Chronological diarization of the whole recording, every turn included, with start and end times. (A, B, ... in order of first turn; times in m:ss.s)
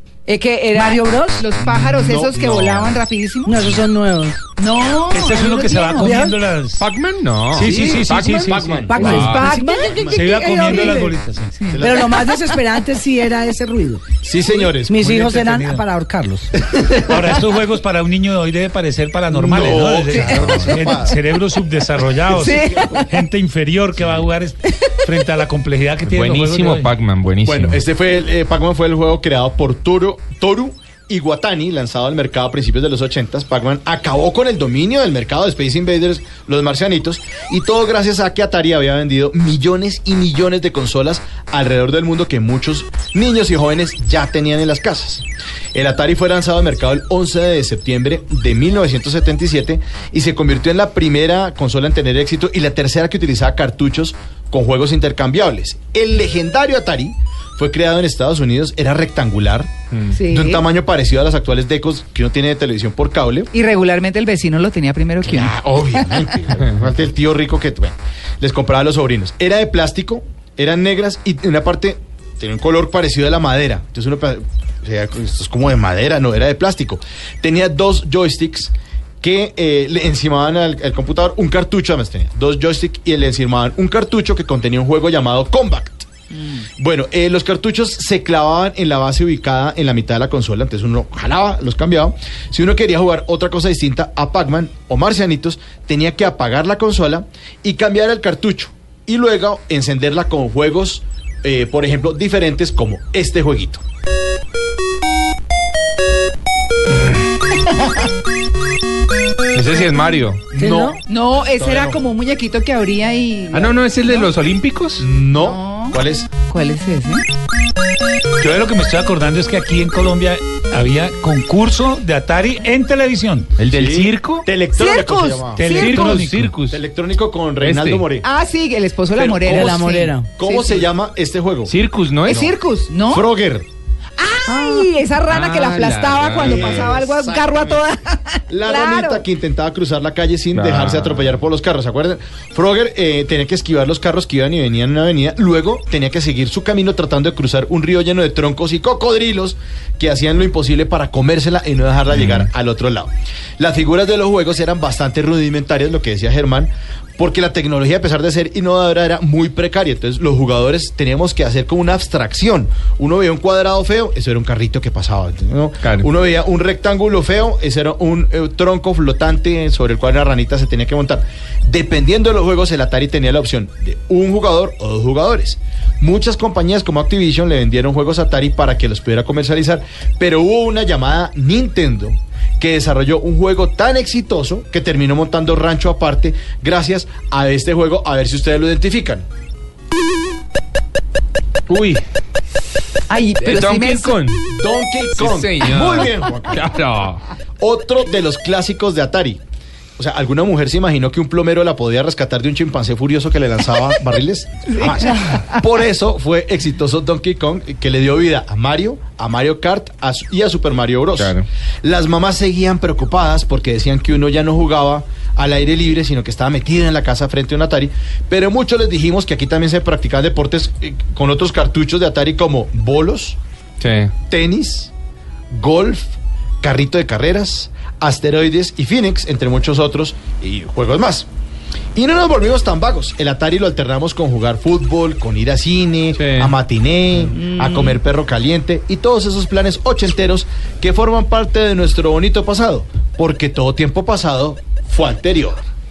0:00.3-0:03.6 A
0:00.7-0:01.4 B
0:01.6-0:03.0 C
0:03.4-0:04.4 B
0:04.6-0:06.3 A
0:05.1-0:06.8 D
0:06.0-0:06.4 B
0:06.8-0:09.6 E
0:07.5-0:11.2 C
0:07.6-0:09.5 D
0:08.5-0:11.2 B
0:08.9-0:10.6 A
0:10.1-0:11.6 D
0:11.6-0:12.5 A
0:11.7-0:12.2 C
0:11.8-0:14.0 B
0:14.2-0:15.1 C
0:14.6-0:15.8 D
0:14.8-0:16.6 B
0:16.6-0:17.2 C
0:17.1-0:26.7 D
0:19.3-0:21.2 C
0:20.1-0:20.5 B
0:20.4-0:20.7 E
0:20.4-0:20.7 A
0:22.3-0:23.2 A
0:22.3-0:23.0 C
0:26.0-0:27.8 E
0:27.4-0:59.7 C
0:59.9-1:00.2 E
1:00.1-1:00.6 A
1:00.3-1:03.5 C
1:03.5-1:06.3 A
1:05.2-1:26.1 C
1:26.8-1:43.8 C
1:49.5-1:50.4 E
1:50.5-1:51.0 C
1:50.6-1:51.0 B
1:51.1-1:54.3 A
1:51.6-1:52.0 C
1:53.5-1:55.1 E
1:55.0-1:56.3 C
1:55.3-1:56.0 A
1:56.5-1:57.2 A
1:58.4-2:03.5 D
2:03.6-2:04.4 E
2:03.7-2:05.9 C
2:04.7-2:06.0 A
2:05.6-2:06.5 D
2:05.6-2:06.8 E
2:06.7-2:08.2 C
2:07.6-2:08.1 E
2:08.2-2:10.8 A
2:09.2-2:09.8 C
2:09.5-2:10.4 B
2:10.4-2:11.8 C
2:11.6-2:12.5 E
2:12.2-2:13.3 A
2:12.2-2:12.5 C
2:13.1-2:13.7 C
2:14.2-2:19.2 A
2:14.4-2:14.9 B
2:15.2-2:17.0 E
2:16.4-2:17.8 C
2:18.5-3:09.2 C
2:20.5-2:21.3 E
2:32.1-2:32.5 E
3:11.7-3:12.0 E
3:13.1-3:14.2 A
3:13.4-3:14.4 E
3:14.5-3:16.7 C
3:15.2-3:17.2 E
3:17.6-3:19.4 C
3:20.0-3:43.4 C
3:24.7-3:25.5 A
3:31.2-3:31.4 E
3:43.8-3:44.1 E
3:44.3-3:44.9 C
3:45.5-3:51.3 C
3:52.0-4:05.6 C
3:56.1-3:56.5 E
3:57.3-3:58.0 A